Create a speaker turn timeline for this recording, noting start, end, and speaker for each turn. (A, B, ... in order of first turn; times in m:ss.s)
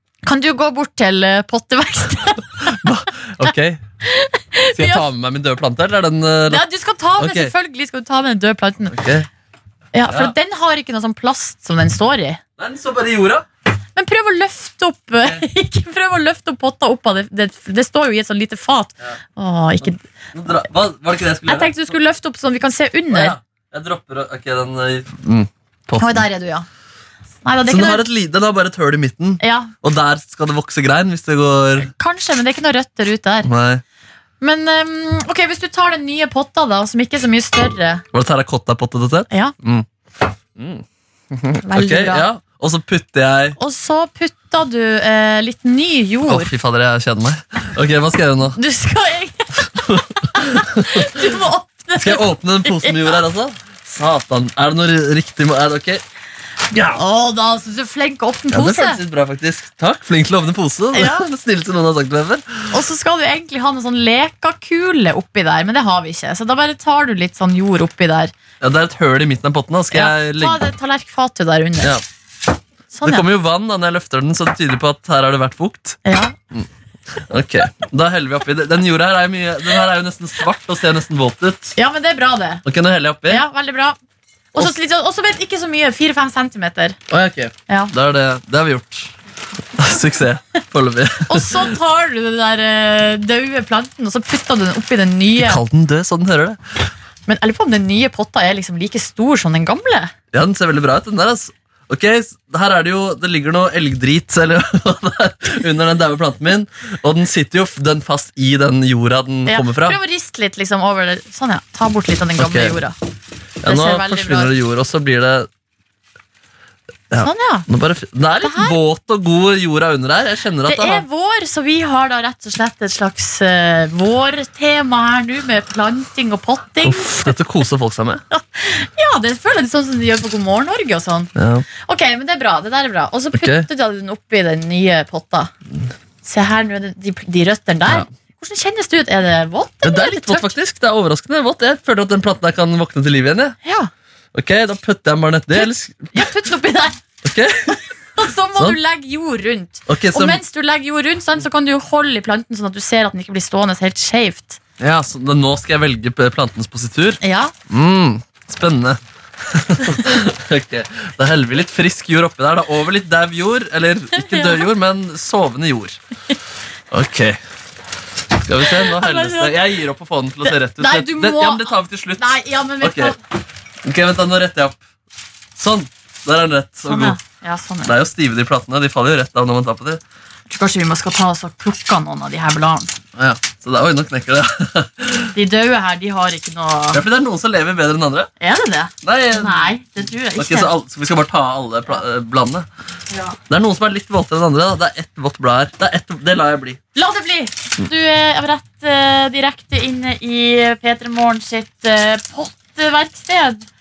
0:00.2-0:02.8 A
0:02.7-0:03.8 B
0:04.0-0:05.0 A
0:04.7-0:06.6 B
0:06.5-0:09.0 A
0:07.2-0:07.5 B
0:08.9-0:09.3 B
0:09.9-0:12.4 A
0:10.1-0:10.3 B
0:12.6-0:13.4 B
0:14.0-0:20.0 A
0:19.8-0:21.8 B
0:21.5-0:23.4 A
0:23.1-0:26.2 B
0:26.0-0:26.6 A
0:27.4-0:28.0 A
0:27.7-0:31.9 B
0:29.4-0:29.7 A
0:31.9-0:33.5 A
0:33.4-0:33.8 B
0:34.4-0:38.0 A
0:38.1-0:39.8 B
0:40.6-0:43.6 B
0:41.6-0:42.2 A
0:43.6-0:46.5 A
0:46.3-0:48.6 B
0:48.6-0:53.2 A
0:49.9-0:51.1 B
0:52.0-0:56.0 B
0:56.7-0:59.0 A
0:58.5-1:02.4 B
1:00.9-1:01.2 A
1:02.7-1:08.3 A
1:08.6-1:10.6 B
1:09.9-1:12.0 A
1:12.9-1:13.2 A
1:13.0-1:16.0 B
1:16.0-1:16.3 A
1:17.3-1:21.8 B
1:21.8-1:22.6 A
1:22.6-1:23.4 B
1:23.3-1:24.0 A
1:24.5-1:27.0 A
1:27.1-1:29.1 B
1:29.8-1:31.6 B
1:31.3-1:35.6 A
1:35.4-1:36.6 B
1:37.3-1:40.1 A
1:40.3-1:50.0 B
1:49.5-1:52.9 A
1:52.4-1:52.8 B
1:53.6-1:55.5 B
1:53.6-1:54.5 A
1:57.1-2:01.0 B
1:57.2-1:57.6 A
1:58.4-1:58.8 A
2:00.6-2:07.3 A
2:06.8-2:08.2 B
2:08.3-2:11.3 A
2:11.4-2:11.6 B
2:11.8-2:15.5 A
2:13.3-2:13.7 B
2:16.2-2:20.5 A
2:19.8-2:23.6 B
2:23.6-2:23.9 A
2:24.3-2:26.1 B
2:25.5-2:27.0 A
2:27.2-2:27.8 B
2:27.7-2:34.6 A
2:29.9-2:30.4 B
2:34.8-2:46.0 B
2:37.2-2:37.5 A
2:44.2-2:44.6 A
2:46.9-2:47.4 B
2:48.4-2:53.1 B
2:48.6-2:49.6 A
2:50.4-2:53.2 A
2:53.8-2:54.8 B
2:55.6-2:57.2 B
2:56.8-2:57.9 A
2:57.8-3:00.0 B
3:00.5-3:02.9 A
3:03.2-3:05.3 B
3:05.3-3:07.0 A
3:06.9-3:08.3 B
3:08.4-3:10.7 A
3:09.0-3:09.7 B
3:10.4-3:12.6 B
3:13.1-3:13.4 A
3:13.5-3:16.8 B
3:16.9-3:23.6 A